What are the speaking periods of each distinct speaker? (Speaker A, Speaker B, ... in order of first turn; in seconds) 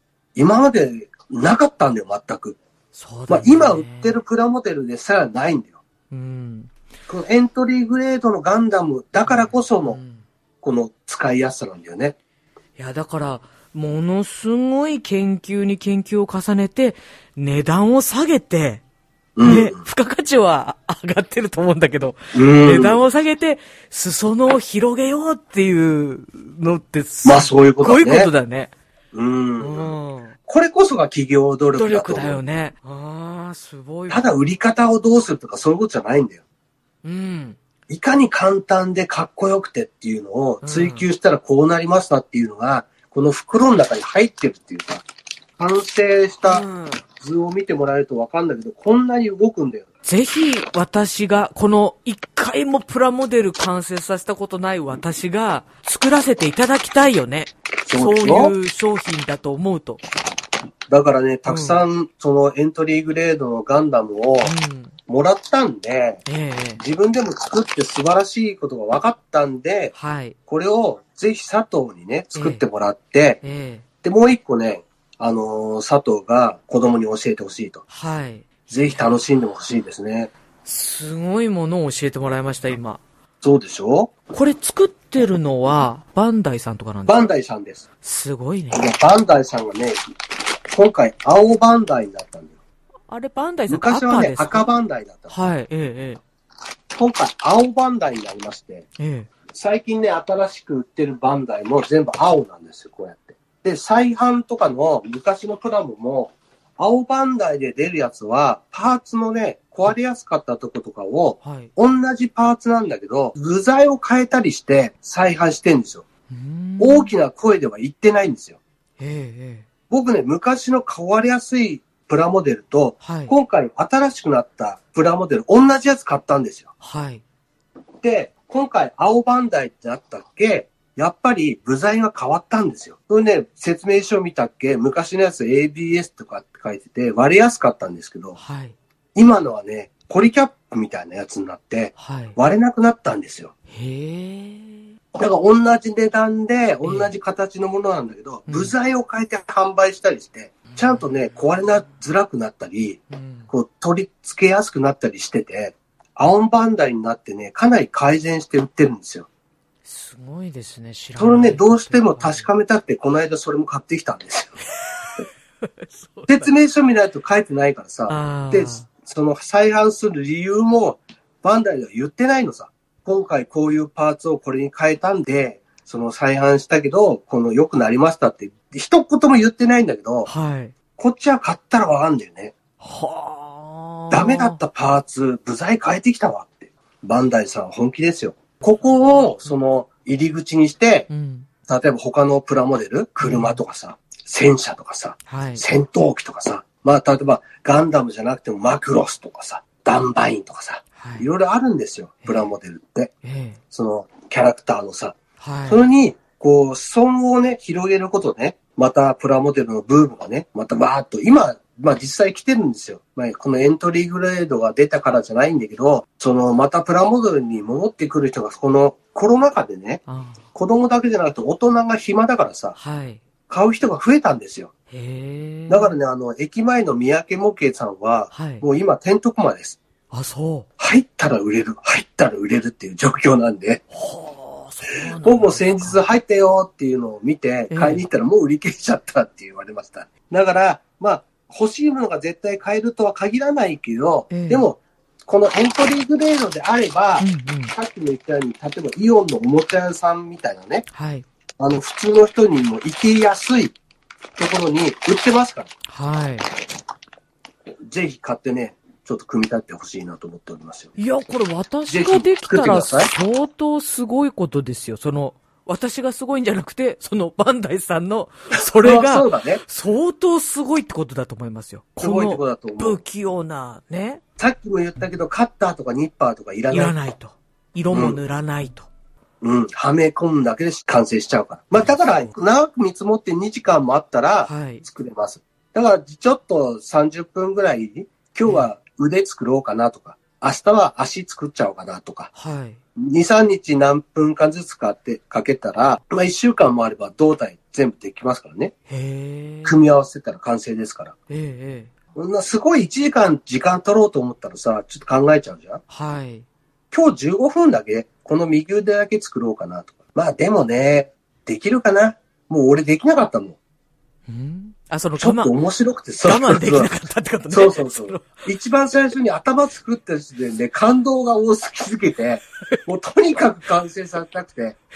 Speaker A: 0.3-2.6, 3.3-5.8, 7.1-10.0, 10.6-12.2, 19.4-19.8, 22.3-23.0, 27.2-28.3, 29.1-29.9, 30.5-32.4, 34.1-36.4, 37.9-45.0, 45.6-49.9, 57.9-58.5, 60.9-64.5, 65.1-66.2, 66.8-70.0, 70.5-73.4, 74.0-77.8, 78.7-80.3, 83.4-84.1, 87.1-87.8, 88.7-90.0, 90.7-92.5, 93.7-95.4, 96.9-98.9, 99.5-116.0, 116.8-118.6, 119.9-126.7, 128.0-138.4, 139.2-143.5, 145.1-159.3, 161.2-164.6, 166.3-180.3, 181.0-182.5, 184.1-191.1, 191.7-203.1, 203.7-220.0, 220.5-222.8, 223.5-224.7, 225.7-229.8, 230.8-233.8, 234.9-250.8, 251.6-253.8, 254.4-255.7, 257.9-260.9, 261.9-263.1, 268.8-269.6, 272.0-273.0, 274.4-276.9, 277.9-278.2, 279.4-292.3, 293.0-298.7, 299.6-301.1, 302.1-305.8, 306.9-313.6, 315.2-316.9, 317.5-324.8
Speaker B: 2.9-4.2, 6.1-6.7, 9.2-10.2, 12.8-18.8, 19.4-28.7, 29.6-30.4, 31.8-34.3, 37.0-37.6, 40.6-41.1, 46.4-47.0, 50.0-60.0, 61.5-61.8, 64.4-65.0, 66.3-66.8, 70.0-70.4, 72.3-72.6, 73.4-73.8, 77.9-79.1, 80.7-83.0, 84.3-87.3, 88.0-88.9, 93.1-94.7, 95.3-96.2, 99.0-99.3, 111.4-111.7, 116.3-117.1, 119.0-119.7, 123.0-123.3, 126.8-127.2, 138.4-138.8, 142.0-142.4, 143.7-144.9, 146.8-147.1, 148.5-148.8, 150.7-151.5, 153.1-153.5, 159.8-162.5, 164.9-166.5, 168.1-168.9, 180.2-180.7, 182.8-184.6, 191.1-191.5, 193.2-193.6, 195.3-195.7, 201.0-201.3, 202.2-202.5, 203.2-203.6, 205.4-205.8, 220.1-220.4, 222.8-223.2, 224.9-225.9, 228.3-228.6, 230.1-230.7, 233.9-236.0, 237.7-238.1, 244.3-244.7, 247.2-247.7, 250.9-251.3, 255.9-256.5, 261.0-274.2, 276.7-278.9, 281.8-282.2, 284.4-284.8, 292.3-292.8, 298.9-299.8, 301.3-302.0, 305.9-306.5, 314.3-315.5, 316.2-318.4